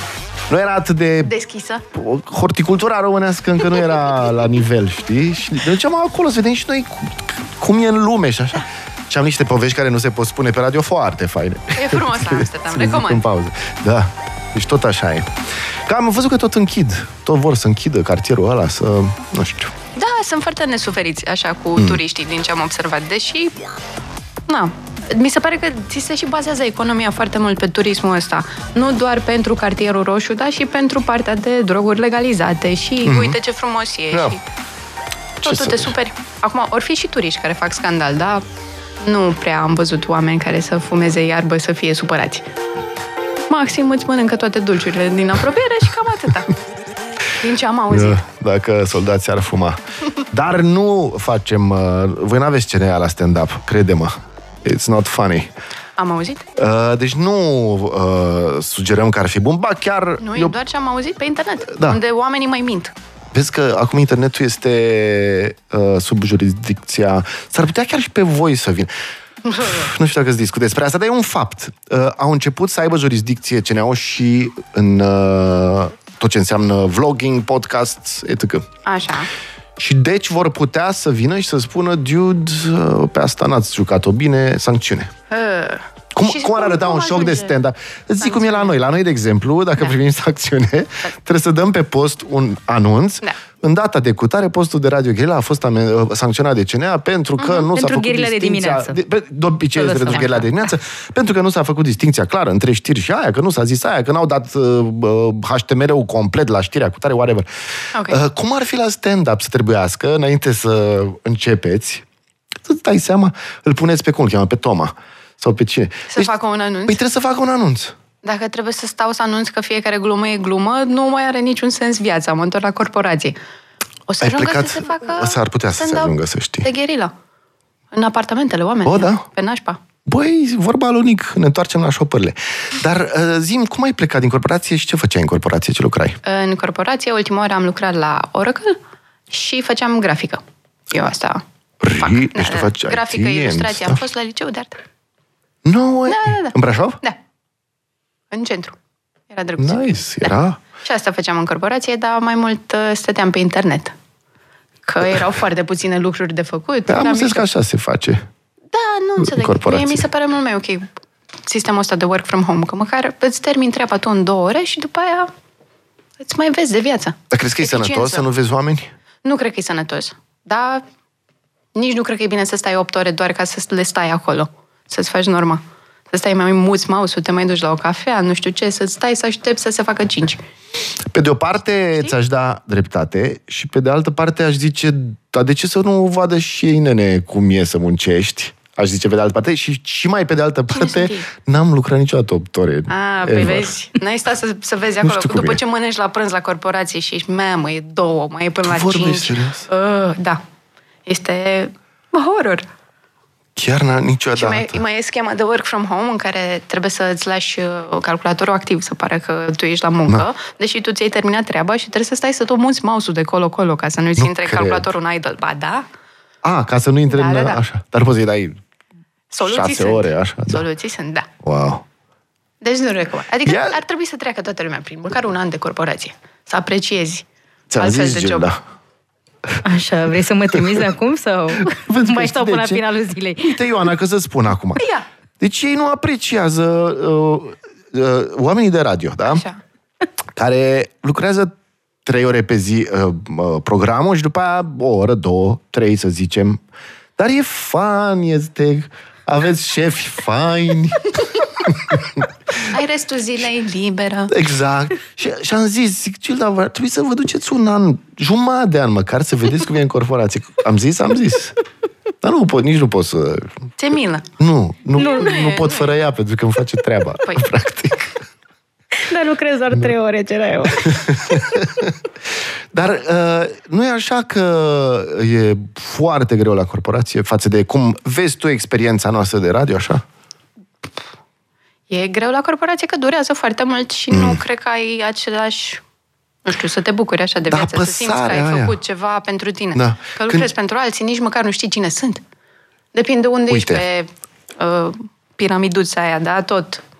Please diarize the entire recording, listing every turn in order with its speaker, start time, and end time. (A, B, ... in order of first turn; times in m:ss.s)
0:00.5-0:01.3 A
0:01.2-0:01.8 B
0:01.9-0:19.7 A
0:11.7-0:13.2 B
0:19.9-0:23.6 B
0:24.5-0:34.4 B
0:33.0-0:33.4 A
0:34.1-0:34.4 A
0:35.4-0:35.9 A
0:35.4-0:38.4 B
0:39.0-0:42.5 B
0:43.5-0:46.5 B
0:47.4-0:48.2 B
0:47.9-0:55.5 A
0:56.0-0:56.4 B
0:56.6-1:00.6 A
1:00.2-1:02.9 B
1:01.7-1:02.0 A
1:03.3-1:08.9 A
1:09.4-1:09.9 B
1:09.6-1:18.7 A
1:18.8-1:19.3 B
1:19.8-1:25.1 A
1:25.3-1:27.6 B
1:26.1-1:47.5 A
1:28.2-1:28.8 B
1:37.4-1:37.7 B
1:37.7-1:39.0 C
1:39.8-1:40.5 C
1:47.9-1:48.2 B
1:48.1-1:52.0 A
1:52.6-1:56.3 A
1:56.1-1:57.0 B
1:56.9-1:57.9 A
1:58.2-2:03.4 B
2:04.1-2:07.1 B
2:04.2-2:06.7 A
2:07.9-2:09.8 B
2:08.8-2:09.2 A
2:10.0-2:16.2 A
2:16.2-2:18.8 B
2:19.3-2:21.4 B
2:21.8-2:24.0 A
2:22.0-2:24.8 B
2:25.6-2:27.0 A
2:26.1-2:27.2 B
2:28.3-2:28.8 B
2:29.3-2:33.9 B
2:29.6-2:30.6 A
2:34.8-2:37.5 B
2:36.9-2:38.3 A
2:38.7-2:40.9 B
2:39.2-2:40.0 A
2:41.4-2:45.3 B
2:46.2-2:48.2 B
2:47.3-2:48.9 A
2:49.2-2:50.8 B
2:51.7-3:00.4 B
3:01.1-3:13.7 A
3:10.7-3:11.3 B
3:12.9-3:20.4 B
3:15.0-3:15.6 A
3:18.6-3:19.7 A
3:21.0-3:22.7 B
3:23.6-3:24.8 A
3:24.3-3:35.9 B
3:34.2-3:34.9 A
3:36.4-3:38.6 A
3:37.1-3:37.6 B
3:39.3-3:41.3 B
3:39.4-3:40.6 A
3:41.4-3:41.8 A
3:42.6-3:47.2 B
3:43.4-3:43.8 A
3:47.7-3:48.6 A
3:47.8-3:48.5 B
3:49.6-3:53.6 C
3:51.6-3:52.8 A
3:53.4-3:54.8 A
3:54.8-3:55.0 B
3:55.4-3:59.4 A
3:59.2-3:59.6 B
4:00.3-4:01.5 A
4:02.0-4:06.6 A
4:07.2-4:12.3 A
4:12.7-4:14.3 B
4:14.3-4:21.6 A
4:22.2-4:23.5 A
4:23.8-4:24.3 B
4:24.4-4:28.1 A
4:25.0-4:25.9 B
4:29.0-4:31.5 C
4:30.7-4:32.0 A
4:32.7-4:40.0 A
4:41.9-4:45.8 B
4:44.1-4:44.4 A
4:46.4-4:52.2 B
4:47.5-4:48.8 A
4:49.7-4:50.5 A
4:52.9-4:56.8 B
4:53.5-4:53.8 A